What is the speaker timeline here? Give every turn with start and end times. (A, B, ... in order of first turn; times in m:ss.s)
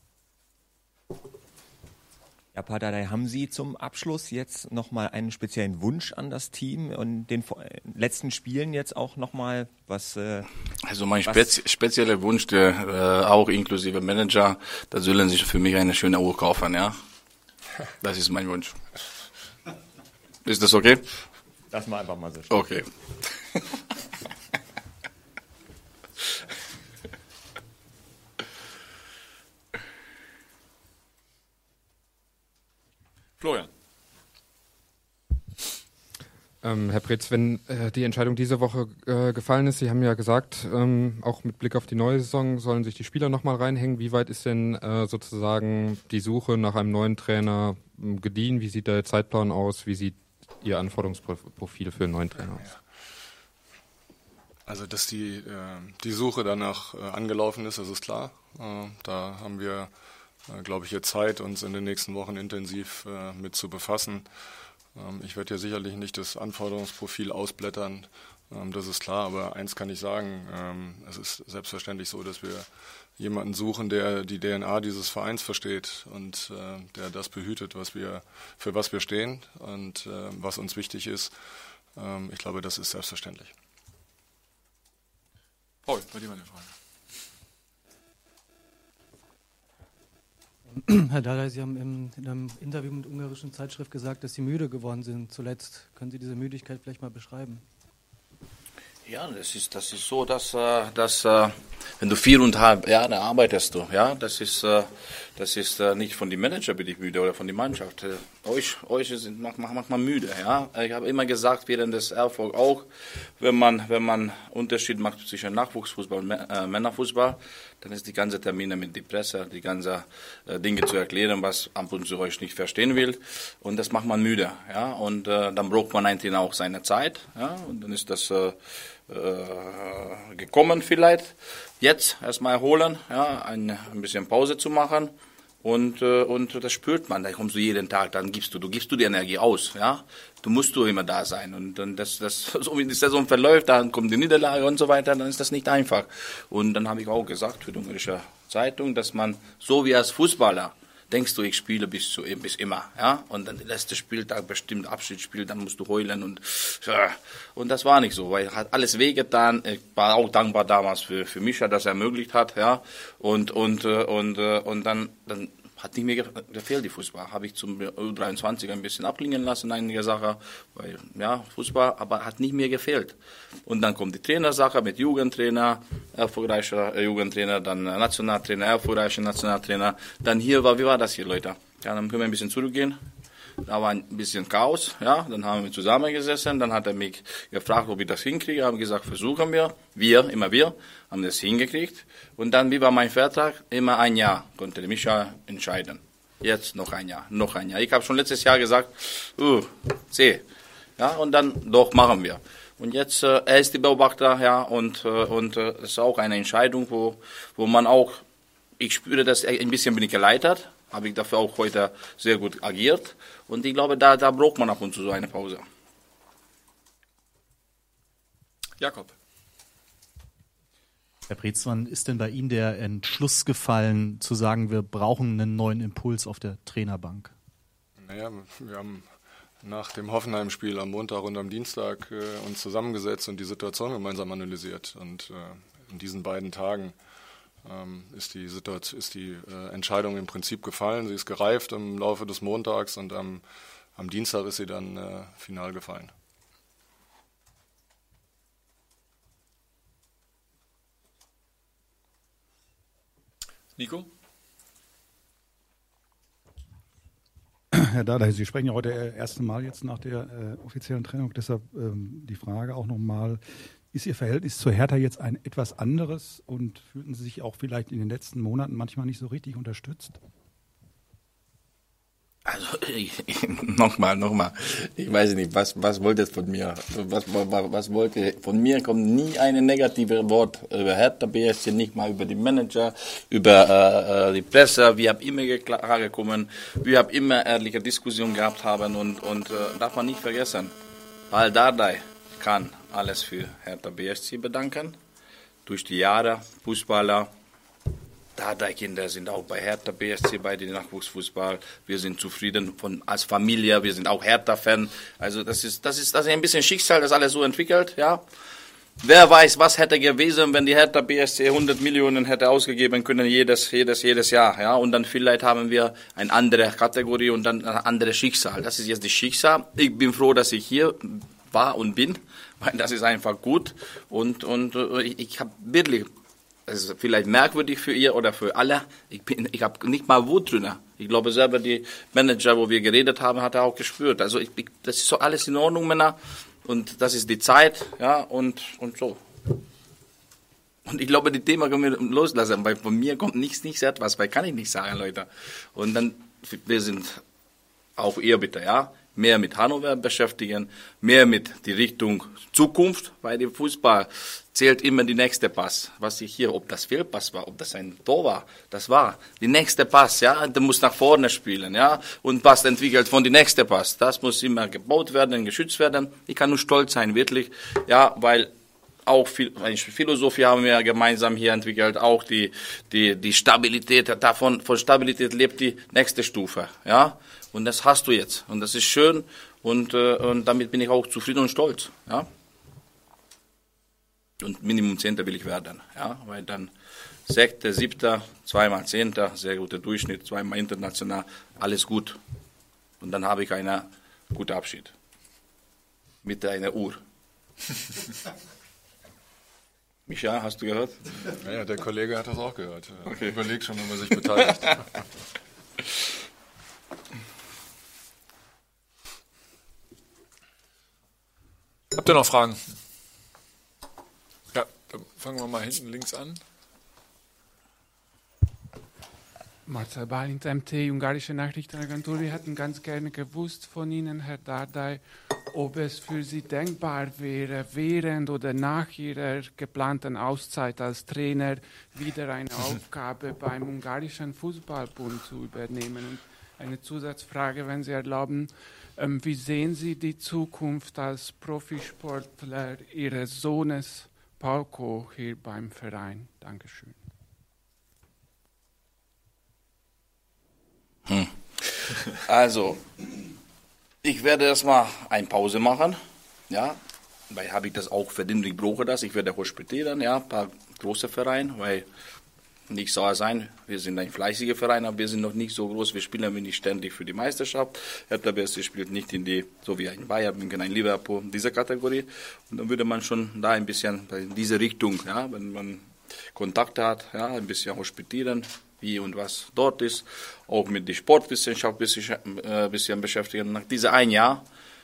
0:02.5-0:10.5 A
0:10.9-0:17.0 B
0:18.0-0:18.8 B
0:20.4-0:21.0 B
0:21.7-0:22.6 A
0:22.5-0:23.3 B
0:33.4-0:33.7 C
0:36.6-0:52.6 D
0:54.7-0:59.9 E
1:00.5-1:04.3 E
1:04.9-1:12.7 E
1:13.2-1:21.3 E
1:22.0-1:23.5 E
1:25.9-1:26.7 C
1:30.7-1:37.6 F
1:39.1-3:03.0 B
3:03.6-3:20.4 B
3:21.0-3:28.2 B
3:28.8-3:35.6 B
3:38.8-3:39.1 C
3:41.3-3:47.3 G
3:48.0-3:49.1 E
3:49.6-3:57.0 E
3:57.6-4:03.4 E
4:04.0-4:06.1 E
4:13.8-4:14.1 C
4:17.8-4:23.4 H
4:23.9-4:30.2 H
4:32.5-4:50.7 B
4:51.3-4:55.0 B
4:55.7-4:57.3 B
4:58.4-5:08.2 B
5:09.0-5:26.1 B
5:26.7-5:39.2 B
5:40.9-5:47.2 B
5:48.0-6:08.5 B
6:09.1-6:22.3 B
6:24.4-6:26.7 B
6:27.3-6:32.2 B
6:33.0-6:34.9 B
6:36.2-6:37.0 B
6:40.1-6:41.0 B
6:41.4-6:44.8 E
6:43.1-6:43.4 B
6:51.9-6:52.6 C
6:54.5-6:56.4 C
6:59.7-7:27.0 I
7:31.1-7:31.3 B
7:32.1-7:32.8 B
7:34.0-7:36.0 B
7:36.5-7:36.8 B
7:37.3-7:41.9 B
7:42.7-8:04.4 B